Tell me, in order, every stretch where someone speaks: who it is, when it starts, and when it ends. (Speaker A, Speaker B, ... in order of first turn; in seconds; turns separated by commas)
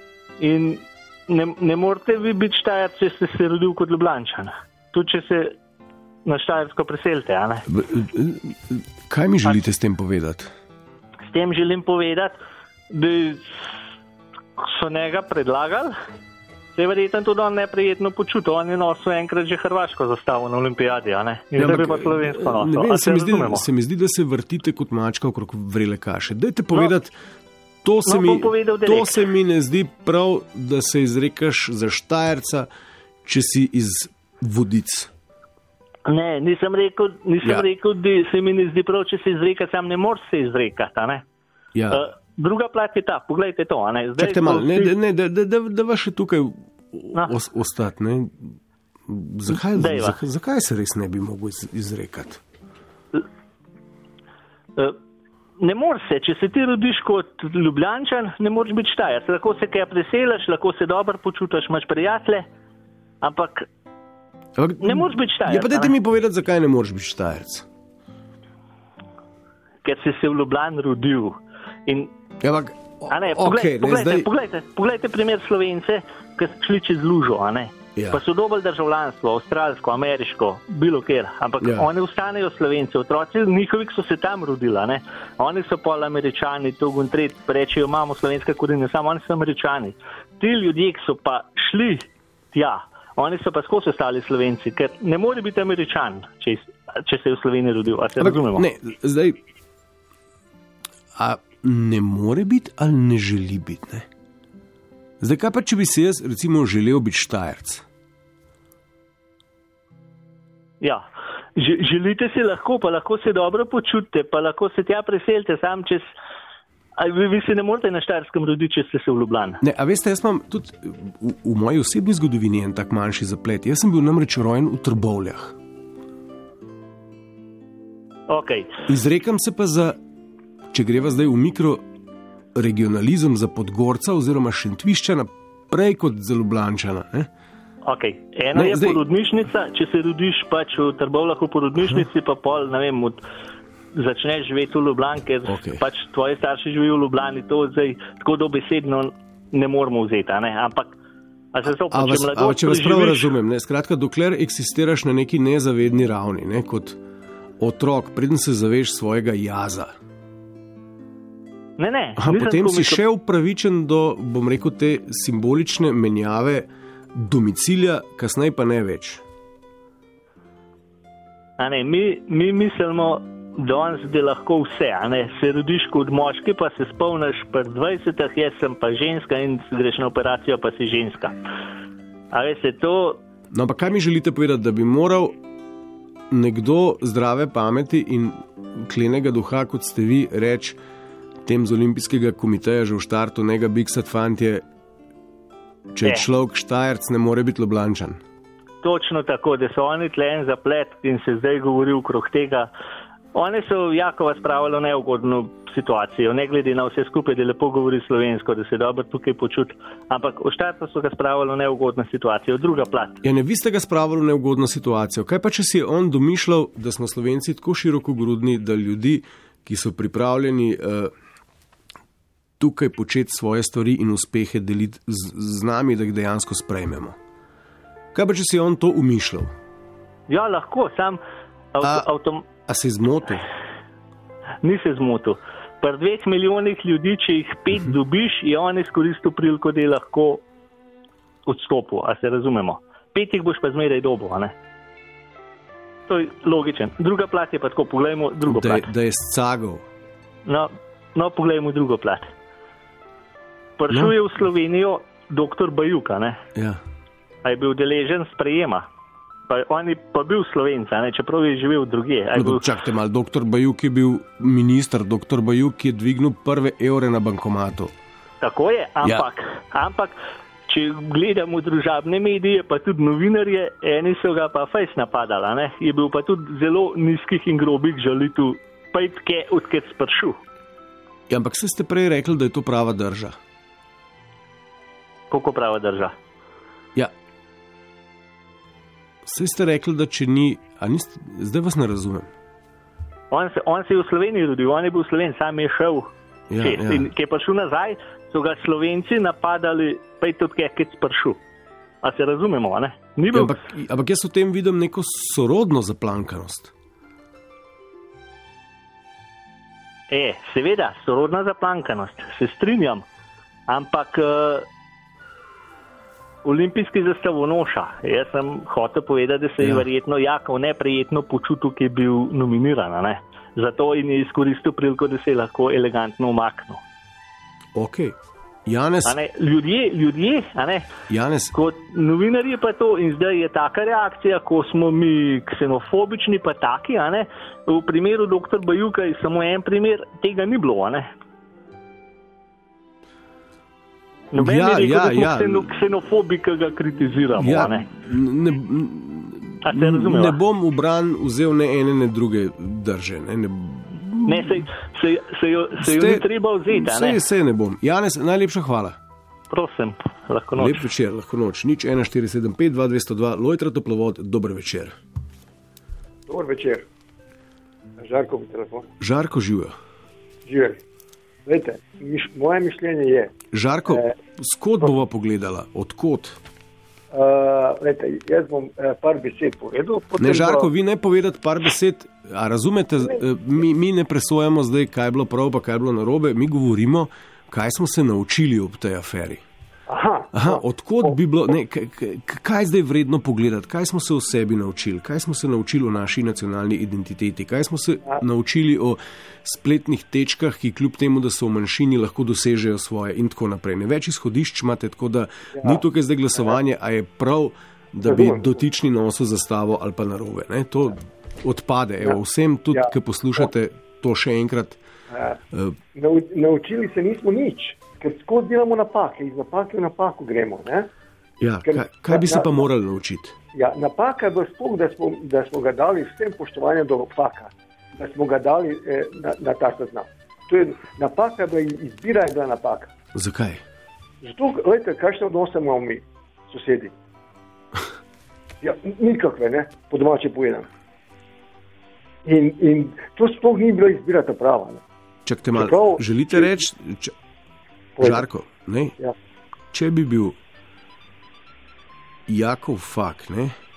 Speaker A: 0.4-5.5, Speaker A: 6.2-7.7, Speaker B: 7.7-10.5, Speaker A: 11.3-12.4, Speaker A: 12.9-13.8, Speaker A: 14.6-15.9, Speaker A: 16.7-23.6, Speaker B: 21.6-27.1, Speaker B: 27.8-32.7, Speaker A: 28.0-29.2, Speaker B: 33.2-35.1, Speaker A: 36.0-41.2, Speaker B: 41.7-42.0, Speaker A: 41.9-44.9, Speaker B: 44.2-48.5, Speaker B: 49.1-52.4, Speaker A: 49.7-50.2, Speaker A: 55.6-62.5, Speaker A: 63.2-63.7, Speaker B: 64.6-67.7, Speaker A: 64.8-65.9, Speaker A: 69.8-72.1, Speaker B: 72.4-74.3, Speaker A: 73.1-98.7, Speaker B: 78.0-78.2, Speaker B: 81.6-81.9, Speaker B: 98.2-99.4, Speaker B: 101.1-104.1, Speaker B: 105.2-107.8, Speaker A: 111.6-116.1, Speaker A: 117.0-119.6, Speaker B: 119.6-125.5, Speaker A: 128.3-128.7, Speaker B: 128.9-130.0, Speaker B: 130.7-131.8, Speaker B: 132.5-137.3, Speaker A: 137.8-143.2, Speaker B: 138.5-139.0, Speaker B: 141.8-142.1, Speaker A: 143.9-150.9, Speaker B: 145.4-145.8, Speaker A: 151.5-153.3, Speaker B: 151.9-157.0, Speaker B: 157.6-159.9, Speaker A: 161.8-163.0, Speaker B: 162.2-169.2, Speaker A: 171.6-181.4, Speaker A: 182.3-183.2, Speaker B: 183.5-185.3, Speaker B: 186.3-190.8, Speaker B: 191.4-194.6, Speaker B: 195.9-198.2, Speaker A: 198.8-202.7, Speaker A: 203.3-213.2, Speaker B: 213.2-221.1, Speaker B: 222.6-227.2, Speaker B: 228.1-229.5, Speaker A: 230.3-231.2, Speaker A: 231.7-232.4, Speaker B: 231.8-232.1, Speaker B: 232.7-233.5, Speaker A: 234.6-240.4, Speaker A: 241.4-244.5, Speaker A: 246.1-248.9, Speaker B: 248.4-249.8, Speaker A: 250.4-252.3, Speaker A: 253.8-256.4, Speaker B: 256.6-256.8, Speaker A: 257.4-258.9, Speaker A: 259.5-262.7, Speaker B: 262.3-267.9, Speaker A: 268.4-270.2, Speaker A: 270.7-280.4, Speaker B: 281.3-283.4, Speaker A: 285.3-286.1, Speaker B: 289.2-292.3, Speaker A: 293.3-301.4, Speaker B: 296.5-297.1, Speaker A: 302.0-303.6, Speaker B: 303.3-306.7, Speaker A: 310.1-313.0, Speaker A: 313.7-314.7, Speaker A: 316.4-326.8, Speaker B: 319.6-319.9, Speaker B: 327.7-328.1, Speaker B: 328.6-329.1, Speaker A: 329.0-330.9, Speaker B: 331.1-331.5, Speaker A: 331.5-341.1, Speaker A: 344.3-347.9, Speaker B: 344.4-345.7, Speaker B: 347.4-354.7, Speaker A: 349.6-350.4, Speaker A: 354.2-357.2, Speaker B: 355.8-359.0, Speaker A: 359.5-360.8, Speaker B: 360.6-364.9, Speaker C: 366.3-366.9, Speaker C: 368.0-368.9, Speaker B: 369.0-369.7, Speaker C: 370.4-370.8, Speaker C: 371.4-373.3, Speaker B: 373.5-376.4, Speaker C: 373.9-374.1, Speaker C: 377.1-380.7, Speaker B: 380.2-389.4, Speaker C: 389.9-391.1, Speaker B: 390.3-414.8, Speaker C: 405.6-405.8, Speaker C: 408.1-408.6, Speaker C: 412.7-413.4, Speaker C: 415.1-415.4, Speaker B: 415.5-415.8, Speaker C: 415.9-420.9, Speaker B: 421.4-423.4, Speaker C: 421.6-422.7, Speaker C: 423.5-432.9, Speaker B: 433.1-433.6, Speaker C: 434.2-436.9, Speaker C: 438.6-440.7, Speaker C: 442.2-444.8, Speaker B: 445.2-447.1, Speaker C: 445.5-446.6, Speaker C: 448.0-448.2, Speaker B: 448.0-448.9, Speaker B: 449.7-450.4, Speaker B: 452.3-453.5